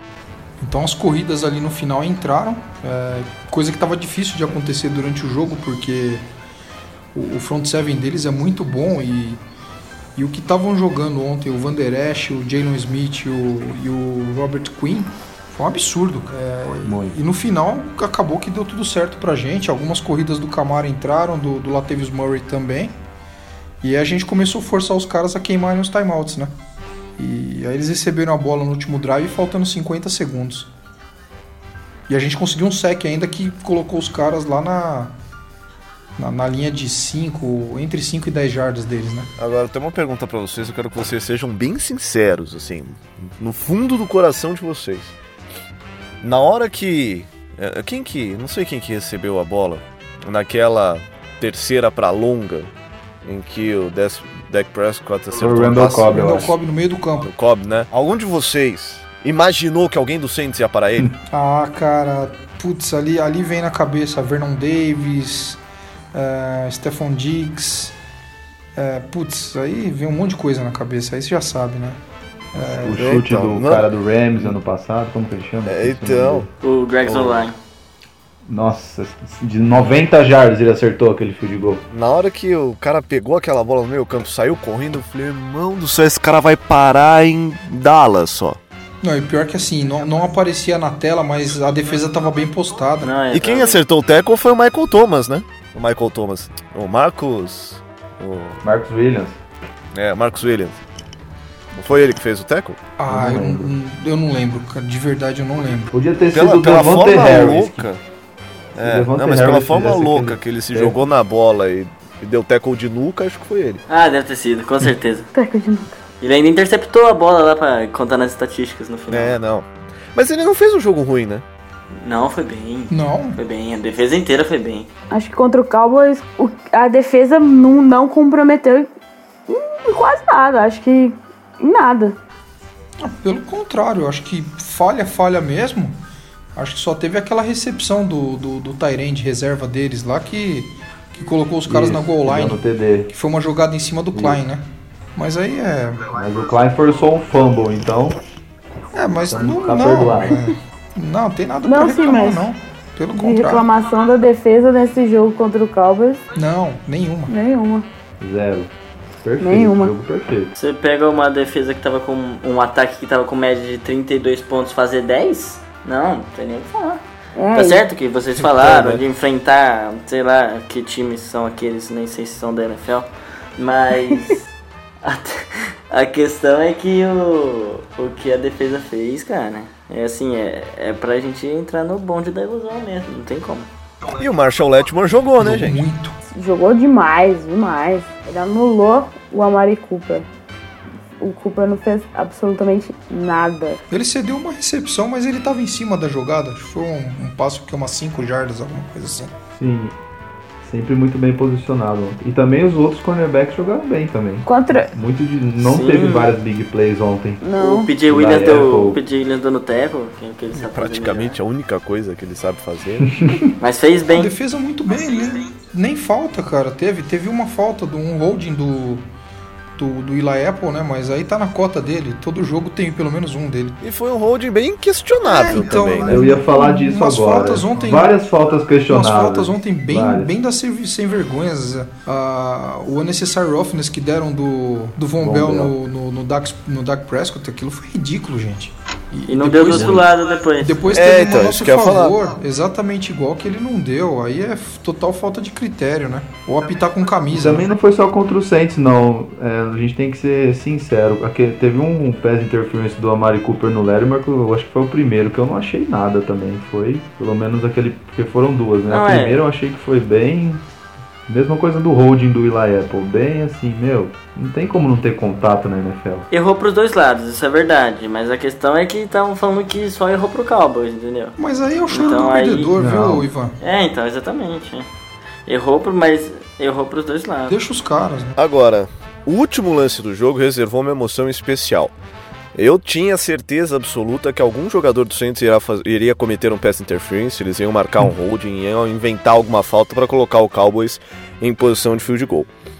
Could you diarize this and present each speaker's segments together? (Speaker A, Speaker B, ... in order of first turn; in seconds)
Speaker A: 0.6-6.2, 7.1-9.4, 10.2-23.0, 23.8-26.6, 27.2-30.7, 32.1-35.1, 36.2-39.3, 55.5-57.3, 61.3-65.6, 66.1-68.0, 68.8-72.0, 72.5-73.1, 89.0-93.2, 103.0-105.9, 122.9-123.4, 133.0-136.0, 136.5-144.6, 145.2-146.1, 148.9-153.7, 156.4-157.3, 185.4-186.2, 193.9-199.3, 214.1-219.1, 219.8-223.8, 225.2-228.2, 228.9-247.7, 271.4-273.6, 277.5-278.4
Speaker B: 16.8-17.2, 55.4-56.5, 72.8-76.5, 78.5-81.8, 98.6-99.4, 103.1-103.8, 105.9-107.9, 108.8-111.0, 141.7-143.1, 144.1-144.4, 146.1-148.2, 149.3-150.4, 158.2-160.5, 168.6-169.0, 199.6-200.0, 200.6-207.4, 208.1-209.0, 213.0-213.4, 226.0-230.3, 235.2-235.7, 247.3-260.6, 261.3-266.3, 272.8-273.2
Speaker C: 39.4-45.1, 46.2-52.7, 53.2-56.1, 57.2-61.1, 72.9-73.9, 75.6-76.5, 77.0-77.5, 81.9-88.6, 93.3-98.6, 99.9-100.8, 101.8-102.8, 106.3-108.0, 108.8-113.8, 119.1-121.5, 184.1-185.8, 210.5-213.2, 223.8-226.2, 240.9-242.2, 278.4-281.9, 282.5-292.5
Speaker D: 76.6-77.6, 93.0-93.8, 113.9-115.3, 116.2-119.4, 122.0-124.9, 160.6-167.0, 167.5-174.5, 175.0-183.7, 205.6-206.3, 207.6-211.4, 213.6-214.3, 239.3-240.9, 258.9-259.4, 266.3-271.3, 271.9-272.8, 273.6-274.9, 275.5-277.5
Speaker E: 115.3-116.0, 125.1-128.9, 129.5-132.2, 151.6-152.5, 153.2-156.2, 157.3-157.9, 159.4-159.9, 167.4-167.8, 186.3-190.3, 191.2-193.8, 204.5-204.9, 207.4-207.9